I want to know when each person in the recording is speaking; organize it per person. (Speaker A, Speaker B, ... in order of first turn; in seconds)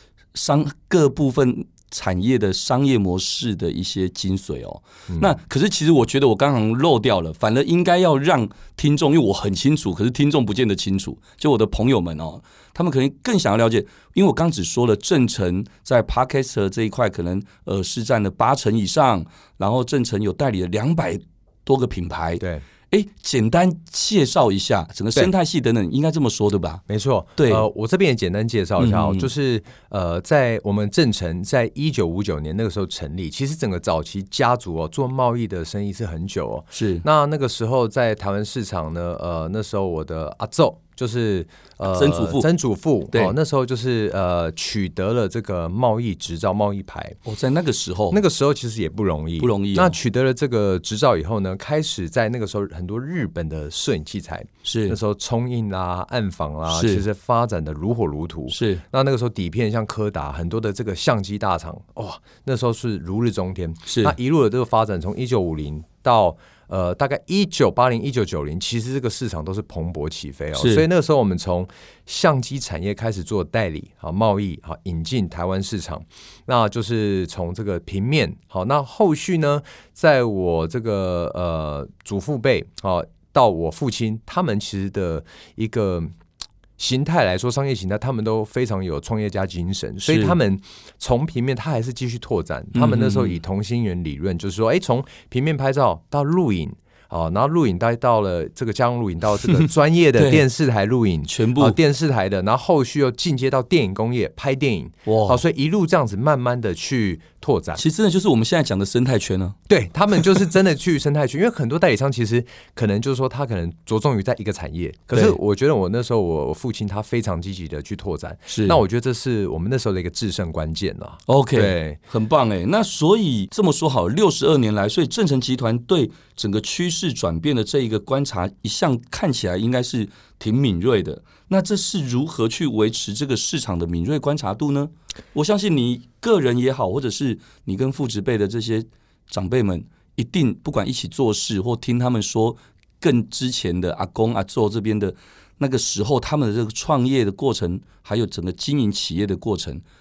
Speaker A: 0.3-26.8, 27.4-27.7, 28.8-29.3, 36.7-37.0, 41.9-42.5, 47.2-48.2, 49.4-50.0, 54.6-55.0, 56.7-57.0, 58.5-58.8, 63.9-64.2, 70.6-70.8, 90.1-90.4, 92.7-93.4, 99.5-100.5, 101.3-101.8, 105.1-105.4, 107.8-109.6, 118.5-118.8, 121.3-149.8
Speaker B: 26.9-47.2, 48.1-86.1, 86.8-107.8, 109.7-122.0